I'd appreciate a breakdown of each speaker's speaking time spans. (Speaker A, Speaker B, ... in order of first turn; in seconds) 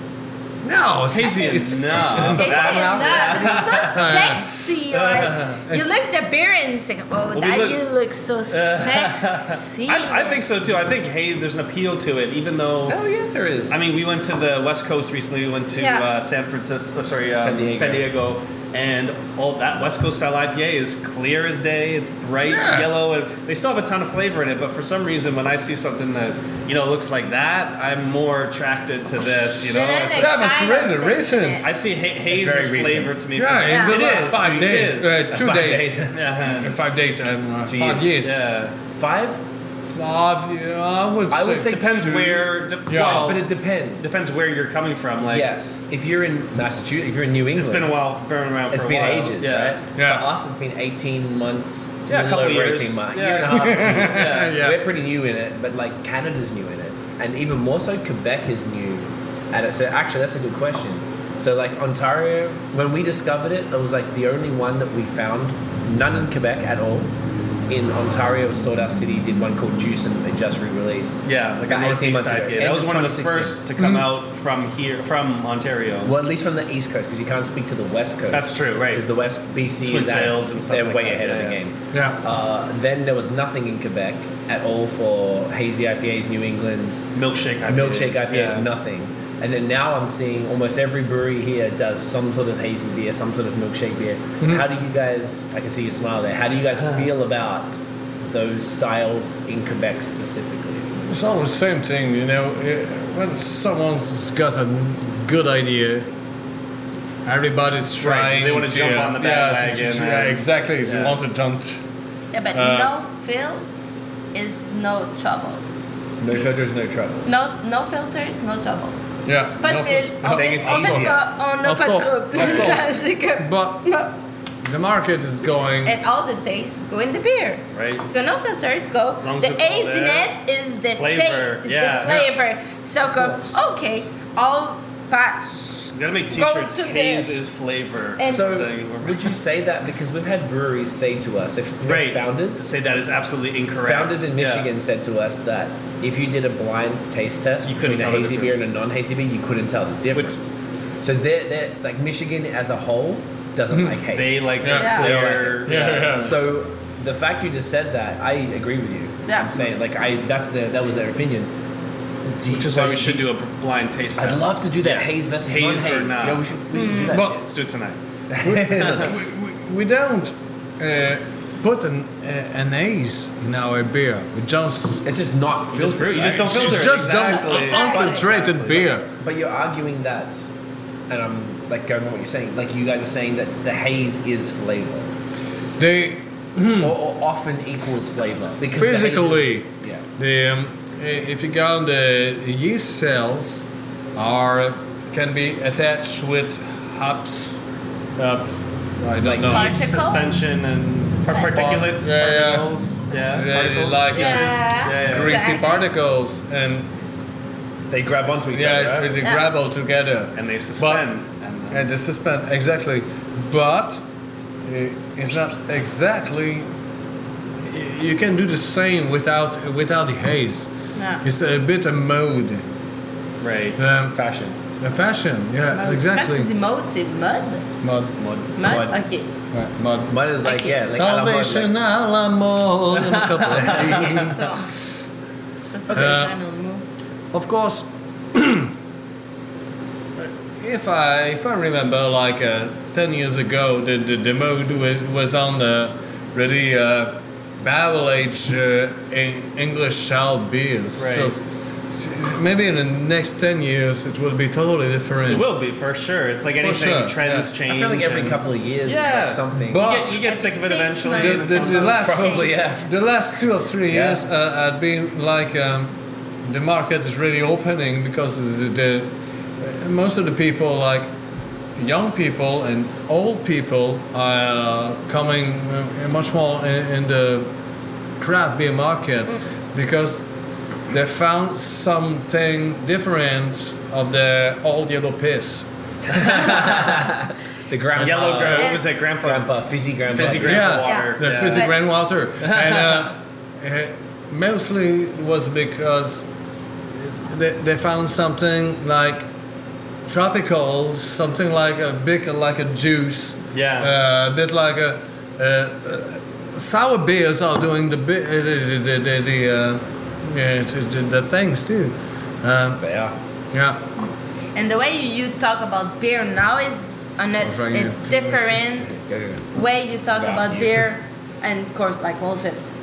Speaker A: 0.6-2.5, 3.9-6.1, 22.5-22.9, 30.2-31.7, 33.4-36.0, 36.5-38.4, 39.9-41.8, 42.9-43.3, 50.0-50.2, 53.5-54.8, 73.8-74.2, 81.9-82.2, 101.0-106.1, 107.3-111.8, 112.5-112.9, 119.3-123.8, 124.6-126.0, 133.2-133.5, 153.7-154.0, 154.6-155.1, 155.6-156.4, 167.1-167.4, 168.4-175.0, 176.5-179.1, 185.8-186.9, 188.7-197.6, 198.2-199.8, 201.5-206.9, 208.1-211.1, 211.7-214.0, 214.7-216.7, 217.7-220.7, 221.2-222.7, 223.8-224.2, 224.8-226.5, 227.8-228.2, 229.5-230.2, 230.9-234.6, 235.9-236.3, 237.3-238.7, 240.2-251.4, 251.9-255.5, 256.6-257.5, 259.7-260.2, 261.1-271.1, 271.8-277.5, 278.2-280.3, 280.9-285.7, 288.0-288.7, 290.4-296.3, 297.0-299.3, 300.1-312.8, 313.5-313.8, 317.4-318.8
Speaker B: 1.1-5.6, 7.3-7.9, 8.5-13.0, 13.7-30.4, 31.6-35.2, 36.1-36.7, 38.2-38.8, 41.6-45.5, 47.5-49.8, 52.1-54.6, 71.2-76.1, 78.3-79.0, 79.8-81.6, 87.1-88.7, 108.0-111.2, 127.7-128.1, 129.2-130.3, 130.9-132.3, 135.9-139.3, 141.9-144.7, 147.7-148.6, 154.1-156.1, 162.5-166.5, 167.2-168.0, 175.7-177.9, 199.4-205.5, 210.3-211.9, 223.4-223.8, 228.2-228.5, 233.0-234.3, 251.0-251.3, 255.3-262.1, 288.0-289.5, 290.1-291.7, 292.5-292.8, 303.5-303.9
Speaker C: 1.9-10.6, 15.8-16.1, 29.6-32.1, 33.7-34.2, 112.3-115.6, 117.3-119.0, 119.6-124.1, 125.8-137.3, 138.2-138.6, 154.8-155.1, 166.7-167.2, 177.4-178.4, 199.5-200.4, 201.3-201.7, 204.1-205.8, 209.2-209.5, 221.0-221.2, 225.7-227.7, 228.6-229.3, 230.4-230.9, 234.3-234.7, 235.7-236.8, 260.2-262.6, 290.9-291.7, 314.6-318.9, 319.5-322.6
Speaker D: 2.1-3.7, 12.9-13.8, 17.4-18.1, 32.3-33.2, 35.3-36.2, 37.7-38.2, 38.9-39.4, 41.3-44.2, 45.2-48.0, 48.7-67.1, 67.7-73.6, 76.0-87.1, 87.7-100.9, 116.2-117.3, 120.2-121.2, 122.4-122.8, 138.2-142.7, 143.8-161.5, 162.3-163.3, 164.2-167.4, 168.3-169.2, 175.0-180.5, 181.1-185.1, 186.8-190.1, 199.2-199.7, 203.6-203.9, 207.9-209.2, 224.1-224.6, 228.6-229.0, 230.1-231.7, 233.5-234.3, 257.7-259.9, 262.0-262.9, 263.9-264.2, 286.1-290.7, 312.8-313.2, 318.8-319.5, 320.1-320.8